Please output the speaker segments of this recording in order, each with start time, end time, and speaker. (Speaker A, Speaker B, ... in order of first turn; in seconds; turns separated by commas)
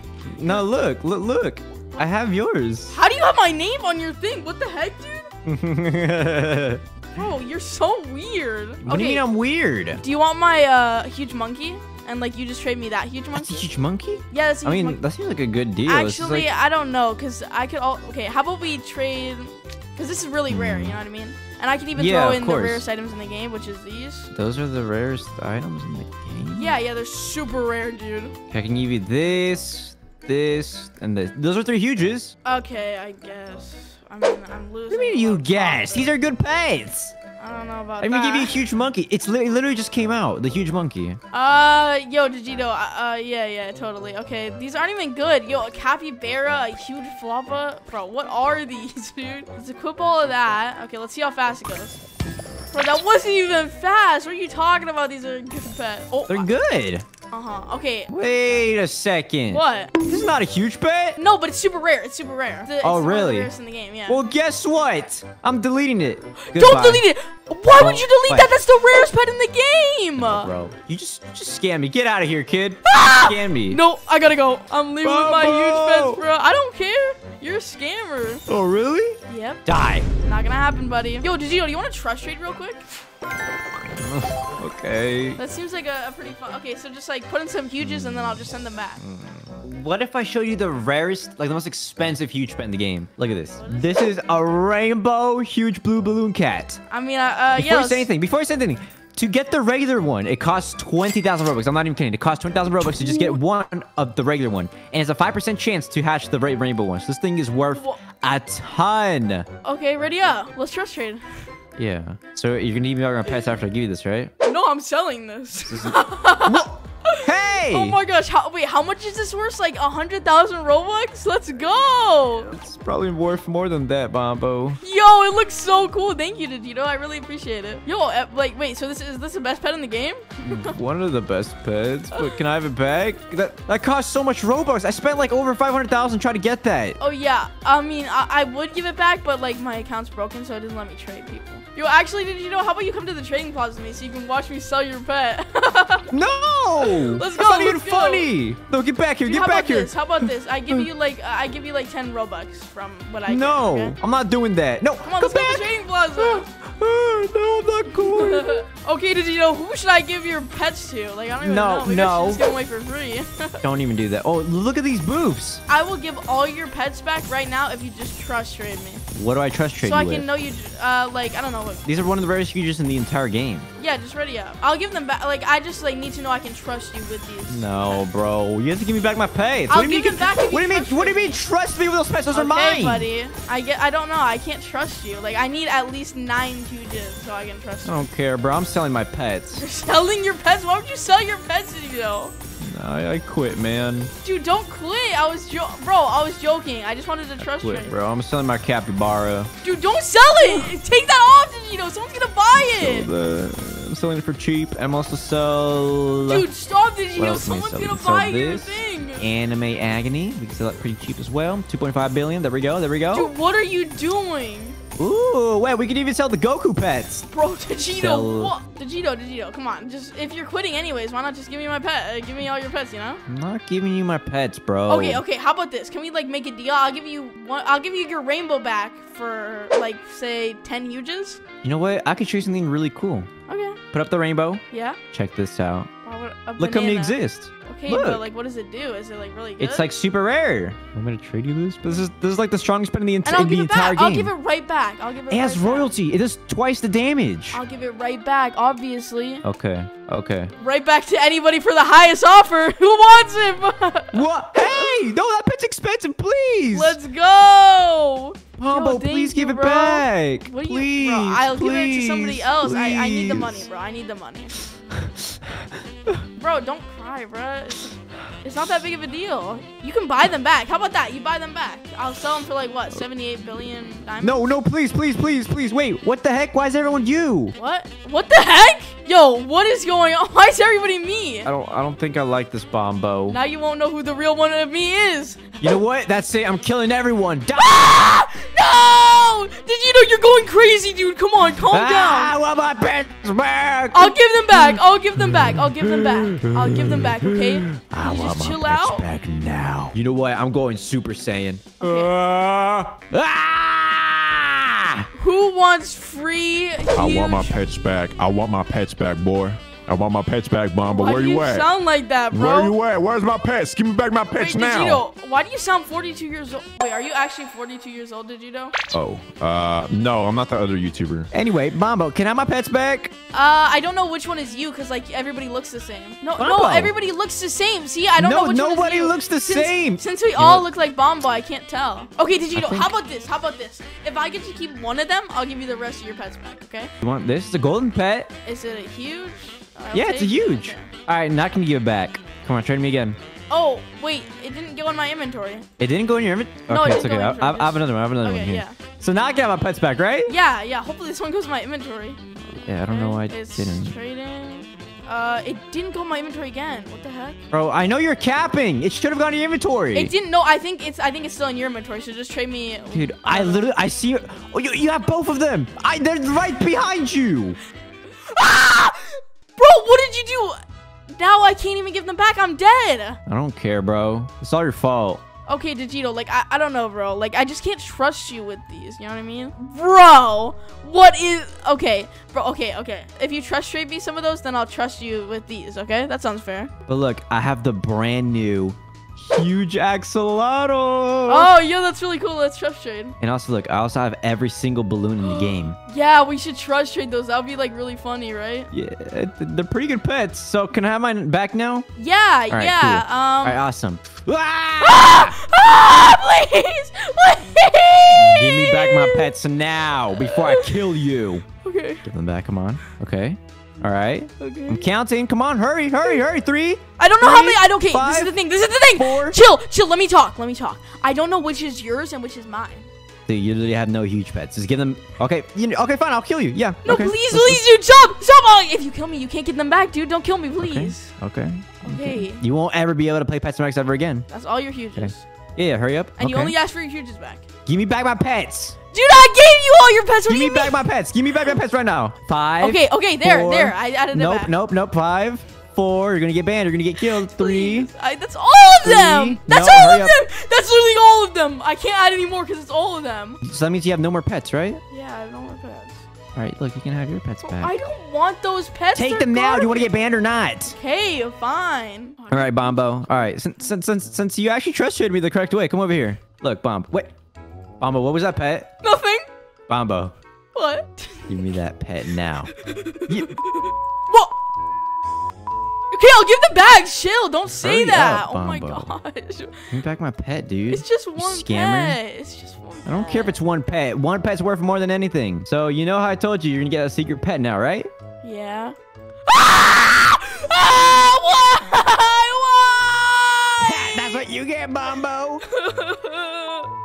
Speaker A: 0.3-3.0, Speaker B: 2.9-5.3, Speaker A: 5.5-6.8, Speaker B: 7.1-9.3, Speaker A: 8.8-10.0, Speaker B: 10.0-13.7, Speaker A: 13.3-16.5, Speaker B: 14.3-15.0, Speaker B: 15.9-24.3, Speaker A: 20.5-21.0, Speaker A: 22.0-22.8, Speaker A: 24.3-26.8, Speaker B: 26.5-28.3, Speaker A: 28.5-32.3, Speaker B: 32.5-36.2, Speaker A: 34.9-37.1, Speaker B: 37.4-38.5, Speaker A: 38.0-41.2, Speaker B: 41.3-52.0, Speaker B: 52.7-56.5, Speaker A: 56.3-57.0, Speaker B: 57.3-58.1, Speaker A: 58.1-61.2, Speaker B: 59.5-60.0, Speaker B: 61.2-64.2, Speaker A: 62.8-63.5, Speaker A: 64.1-67.1, Speaker B: 66.5-70.5, Speaker A: 67.8-68.5, Speaker A: 70.2-73.8, Speaker B: 72.9-78.4, Speaker A: 75.0-76.2, Speaker A: 78.5-80.1, Speaker B: 79.3-79.6, Speaker B: 80.2-82.8, Speaker A: 83.9-85.4, Speaker B: 85.4-89.0, Speaker A: 87.8-88.4, Speaker A: 89.0-96.8, Speaker B: 93.6-94.0, Speaker B: 96.9-98.1, Speaker A: 97.6-109.5, Speaker B: 103.0-103.4, Speaker B: 107.7-108.0, Speaker B: 109.6-111.4, Speaker A: 111.8-114.3, Speaker B: 114.4-122.6, Speaker A: 115.7-118.0, Speaker A: 122.5-124.8, Speaker B: 124.8-130.8, Speaker A: 130.5-137.0, Speaker B: 132.1-132.4, Speaker B: 137.0-146.1, Speaker A: 146.1-150.9, Speaker B: 146.8-148.3, Speaker B: 149.3-154.0, Speaker A: 153.3-158.6, Speaker B: 155.0-156.5, Speaker B: 157.9-163.6, Speaker A: 161.4-162.4, Speaker A: 163.6-165.6, Speaker B: 165.7-169.0, Speaker A: 169.1-170.3, Speaker B: 169.8-171.9, Speaker A: 171.8-173.7, Speaker B: 173.8-177.7, Speaker A: 177.5-183.1, Speaker B: 179.7-181.4, Speaker B: 182.3-188.0, Speaker A: 187.8-189.7, Speaker B: 189.6-192.3, Speaker A: 192.6-194.1, Speaker B: 194.2-198.0, Speaker A: 197.4-199.5, Speaker B: 199.6-203.1, Speaker A: 202.6-206.5, Speaker B: 206.3-209.2, Speaker A: 207.2-213.3, Speaker B: 213.1-214.8, Speaker A: 215.0-217.3, Speaker B: 217.3-223.2, Speaker A: 218.0-218.6, Speaker A: 223.3-225.2, Speaker B: 224.9-231.4, Speaker A: 231.6-233.3, Speaker B: 233.5-233.8, Speaker A: 233.9-235.9, Speaker B: 234.7-235.0, Speaker B: 236.0-239.9, Speaker A: 236.6-238.3, Speaker A: 239.6-244.3, Speaker B: 243.2-245.9, Speaker A: 245.3-247.6, Speaker B: 247.5-249.4, Speaker A: 249.4-250.5, Speaker B: 250.6-254.2, Speaker A: 254.1-257.0, Speaker B: 256.7-264.6, Speaker A: 258.6-263.6, Speaker A: 264.9-266.2, Speaker B: 266.4-274.5, Speaker A: 274.2-277.6, Speaker B: 277.6-281.5, Speaker A: 281.4-283.4, Speaker B: 283.3-285.8, Speaker A: 285.6-288.3, Speaker B: 287.6-292.4, Speaker A: 291.7-305.1, Speaker B: 293.9-299.1, Speaker B: 301.8-302.1, Speaker B: 305.1-307.6, Speaker C: 306.9-311.7, Speaker B: 310.9-312.8, Speaker C: 312.3-315.0, Speaker B: 314.4-318.8, Speaker C: 318.9-321.3, Speaker A: 321.3-323.1, Speaker B: 323.3-336.9, Speaker A: 326.4-326.9, Speaker A: 328.2-330.7, Speaker A: 332.5-332.9, Speaker A: 337.0-338.3, Speaker B: 338.4-340.9, Speaker A: 339.9-343.2, Speaker B: 343.5-345.7, Speaker A: 345.8-350.3, Speaker B: 346.7-348.8, Speaker B: 350.3-352.2, Speaker A: 352.7-353.9, Speaker B: 352.8-357.4, Speaker A: 357.5-360.1, Speaker B: 359.9-363.7, Speaker A: 362.9-367.6, Speaker B: 368.1-373.2, Speaker A: 373.3-375.2, Speaker B: 375.5-386.7, Speaker A: 386.9-391.5, Speaker B: 391.3-393.1, Speaker A: 393.2-395.8, Speaker B: 395.2-398.7, Speaker A: 398.7-401.9, Speaker B: 402.0-403.6, Speaker A: 402.5-405.4, Speaker B: 404.8-409.3, Speaker A: 408.1-411.4, Speaker B: 410.2-410.8, Speaker B: 411.6-412.0, Speaker A: 412.0-419.4, Speaker B: 414.4-414.9, Speaker B: 417.0-422.9, Speaker A: 423.3-427.6, Speaker B: 426.9-431.1, Speaker A: 430.6-434.3, Speaker B: 431.8-432.4, Speaker B: 434.3-435.2, Speaker A: 435.0-436.6, Speaker B: 436.2-437.4, Speaker A: 437.7-438.8, Speaker B: 438.9-440.8, Speaker A: 440.3-447.9, Speaker B: 442.6-444.5, Speaker B: 447.1-453.4, Speaker A: 448.8-450.2, Speaker A: 453.4-454.8, Speaker B: 454.9-456.0, Speaker A: 456.4-457.7, Speaker B: 457.4-459.9, Speaker A: 458.9-460.8, Speaker B: 460.8-462.9, Speaker A: 462.3-467.1, Speaker A: 467.8-468.7, Speaker B: 468.8-469.3, Speaker A: 469.7-470.1, Speaker B: 470.5-471.3, Speaker A: 471.3-472.5, Speaker B: 472.5-474.4, Speaker A: 473.1-473.4, Speaker B: 475.9-479.6, Speaker A: 477.5-478.9, Speaker A: 479.7-482.0, Speaker B: 480.7-483.4, Speaker A: 482.9-487.9, Speaker B: 488.2-488.8, Speaker B: 489.3-494.0, Speaker A: 493.6-495.4, Speaker B: 495.4-496.7